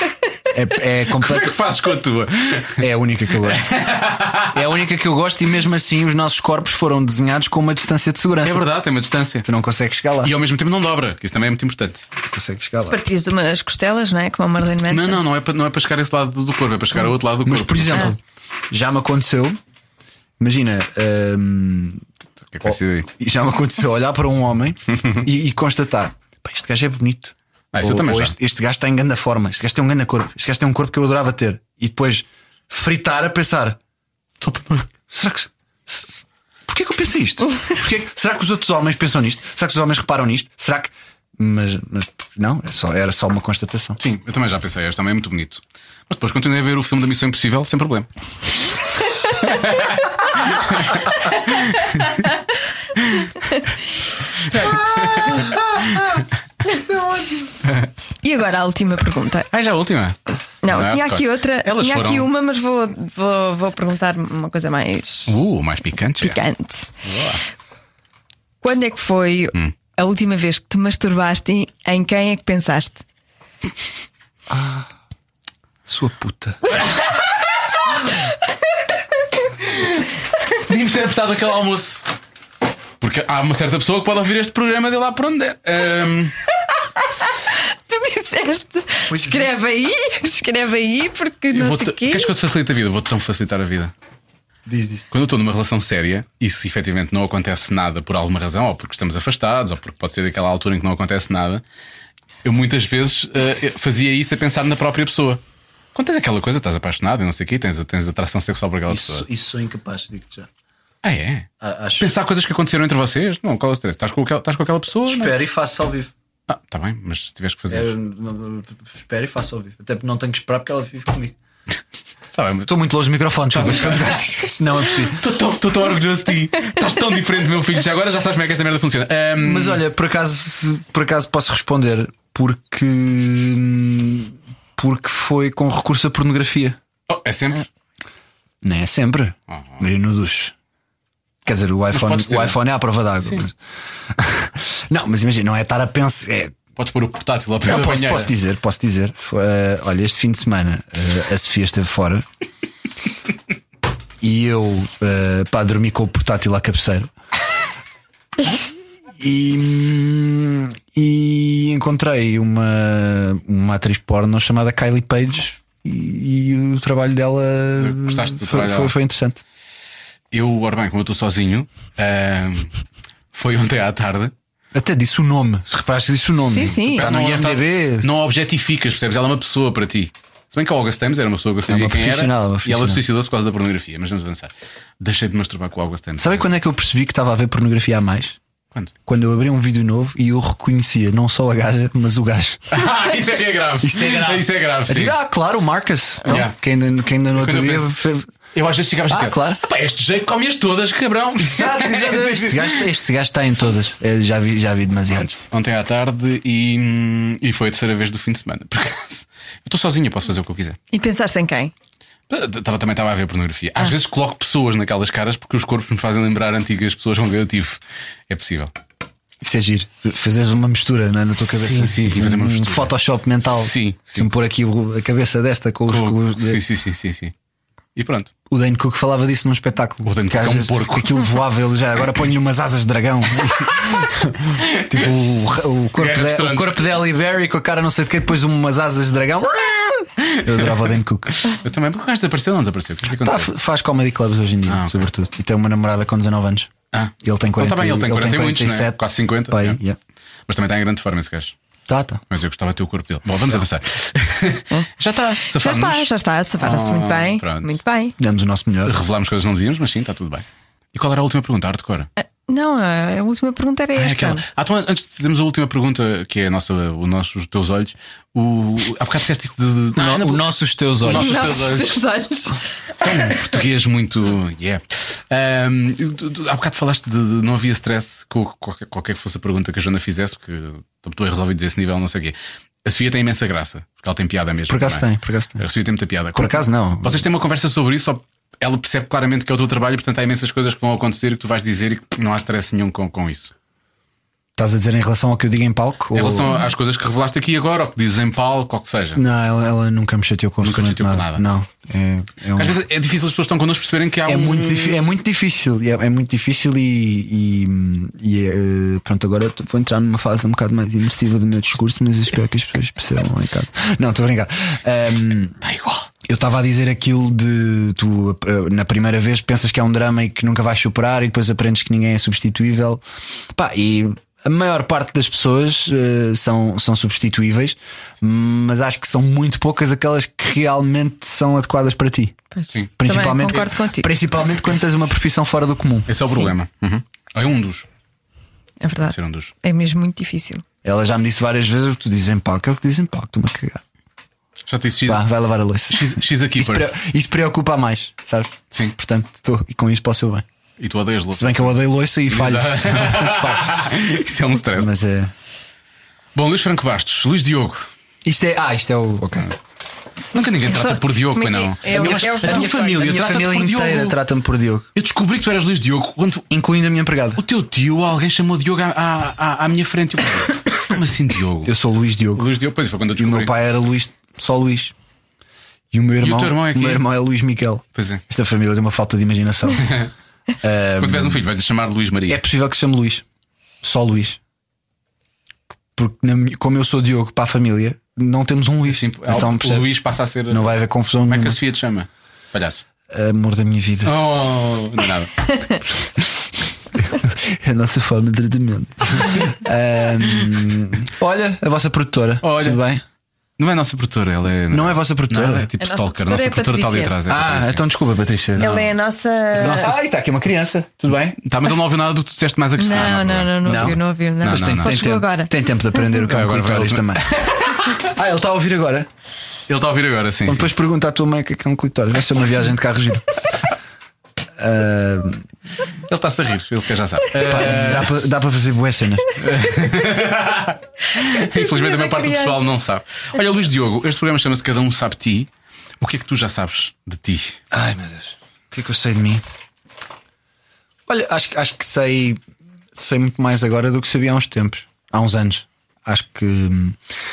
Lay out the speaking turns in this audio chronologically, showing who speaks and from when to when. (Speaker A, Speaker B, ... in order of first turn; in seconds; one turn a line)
Speaker A: 0.5-1.6
Speaker B: 1.1-2.8
Speaker A: 2.8-3.8
Speaker B: 3.4-4.5
Speaker A: 4.5-8.7
Speaker B: 8.4-9.5
Speaker A: 9.4-10.3
Speaker B: 10.2-12.1
Speaker A: 12.2-13.0
Speaker C: 12.8-15.2
Speaker B: 14.9-18.1
Speaker A: 17.4-18.2
Speaker A: 18.7-19.6
Speaker A: 20.4-22.1
Speaker B: 22.5-23.1
Speaker A: 22.6-33.8
Speaker B: 27.7-28.3
Speaker B: 34.4-34.9
Speaker A: 35.1-44.0
Speaker B: 44.0-48.1
Speaker B: 49.3-52.1
Speaker B: 53.0-53.3
Speaker B: 54.4-56.3
Speaker C: 54.5-54.8
Speaker A: 56.9-57.2
Speaker C: 58.2-59.5
Speaker B: 59.5-62.3
Speaker C: 60.6-65.4
Speaker B: 65.3-66.4
Speaker C: 66.2-66.9
Speaker B: 67.0-67.4
Speaker C: 68.6-73.0
Speaker A: 74.5-74.9
Speaker A: 75.8-76.7
Speaker B: 79.6-82.0
Speaker B: 83.0-86.3
Speaker C: 87.0-92.3
Speaker A: 89.1-89.5
Speaker B: 91.5-93.9
Speaker A: 94.7-95.0
Speaker B: 95.1-101.6
Speaker B: 102.4-105.4
Speaker B: 105.9-109.2
Speaker A: 108.9-110.5
Speaker B: 111.0-115.4
Speaker A: 111.6-112.1
Speaker A: 115.0-116.1
Speaker B: 116.5-117.9
Speaker A: 117.7-121.3
Speaker B: 122.3-122.7
Speaker A: 122.7-125.2
Speaker B: 123.5-124.3
Speaker B: 125.0-129.8
Speaker A: 129.4-136.8
Speaker B: 137.1-137.7
Speaker A: 138.6-140.5
Speaker B: 139.5-139.8
Speaker A: 141.4-146.6
Speaker B: 141.9-142.6
Speaker B: 146.8-148.3
Speaker A: 147.6-152.2
Speaker A: 154.2-157.1
Speaker A: 159.2-169.4
Speaker B: 167.8-168.9
Speaker B: 170.3-172.7
Speaker B: 173.3-174.3
Speaker A: 174.7-178.1
Speaker C: 176.5-177.1
Speaker B: 176.6-186.4
Speaker A: 181.7-183.0
Speaker A: 186.2-188.4
Speaker A: 189.1-192.8
Speaker B: 192.7-195.1
Speaker A: 193.8-198.3
Speaker B: 196.2-196.5
Speaker B: 197.3-197.9
Speaker B: 198.5-202.9
Speaker A: 199.1-199.6
Speaker A: 201.4-205.3
Speaker B: 205.1-210.8
Speaker C: 210.9-211.7
Speaker B: 212.3-218.7
Speaker A: 219.4-226.6
Speaker B: 221.5-222.9
Speaker B: 223.4-224.3
Speaker B: 225.9-227.3
Speaker B: 227.9-228.3
Speaker A: 228.5-241.4
Speaker B: 230.1-231.3
Speaker B: 234.8-235.1
Speaker B: 235.9-236.9
Speaker B: 240.2-243.5
Speaker A: 243.1-250.0
Speaker B: 244.7-245.1
Speaker B: 246.9-249.8
Speaker B: 250.5-251.5
Speaker A: 251.9-252.2
Speaker B: 252.3-256.1
Speaker C: 255.5-258.1
Speaker B: 256.6-257.8
Speaker A: 258.2-259.0
Speaker B: 258.8-262.1
Speaker C: 262.2-264.4
Speaker B: 263.9-272.0
Speaker A: 269.9-271.5
Speaker C: 271.1-272.6
Speaker B: 273.0-285.0
Speaker A: 284.7-285.6
Speaker B: 285.6-293.5
Speaker A: 286.3-287.2
Speaker A: 294.6-296.6
Speaker B: 296.1-299.2
Speaker A: 299.1-302.8
Speaker B: 300.6-301.4
Speaker B: 302.5-305.0
Speaker A: 304.2-315.6
Speaker B: 315.6-316.1
Speaker A: 316.2-323.0
Speaker A: 323.5-332.4
Speaker C: 332.5-334.1
Speaker A: 333.0-336.1
Speaker B: 336.1-337.9
Speaker C: 338.8-340.6
Speaker B: 339.1-339.5
Speaker A: 340.8-343.8
Speaker B: 344.6-345.2
Speaker A: 345.0-350.4
Speaker B: 345.9-346.9
Speaker B: 350.8-355.0
Speaker A: 351.3-353.8
Speaker A: 354.8-355.3
Speaker B: 356.3-357.9
Speaker A: 358.2-359.5
Speaker B: 360.3-364.2
Speaker C: 360.7-362.9
Speaker A: 361.9-364.9
Speaker B: 364.9-366.5
Speaker A: 366.5-367.4
Speaker B: 367.4-371.7
Speaker A: 371.6-372.5
Speaker B: 372.4-373.5
Speaker A: 373.1-374.9
Speaker A: 375.9-380.0
Speaker B: 376.2-377.1
Speaker B: 377.9-378.2
Speaker B: 379.8-380.1
Speaker A: 380.6-381.4
Speaker B: 381.0-382.4
Speaker A: 382.3-383.2
Speaker A: 383.8-384.4
Speaker A: 385.9-389.9
Speaker B: 388.9-392.8
Speaker A: 390.5-391.6
Speaker A: 393.1-394.2
Speaker B: 394.0-395.8
Speaker A: 396.9-403.0
Speaker B: 402.4-402.8
Speaker B: 403.6-407.8
Speaker A: 404.7-405.7
Speaker C: 405.8-407.1
Speaker A: 407.3-408.9
Speaker C: 408.6-409.9
Speaker A: 409.6-411.4
Speaker B: 411.4-415.1
Speaker C: 412.8-415.5
Speaker A: 413.6-419.1
Speaker B: 416.1-418.1
Speaker B: 419.7-420.7
Speaker A: 420.5-423.4
Speaker A: 424.6-425.4
Speaker B: 426.1-428.1
Speaker A: 427.4-429.3
Speaker B: 429.4-435.5
Speaker C: 431.3-432.6
Speaker B: 436.0-437.6
Speaker A: 437.7-439.4
Speaker A: 441.1-442.4
Speaker A: 442.9-447.0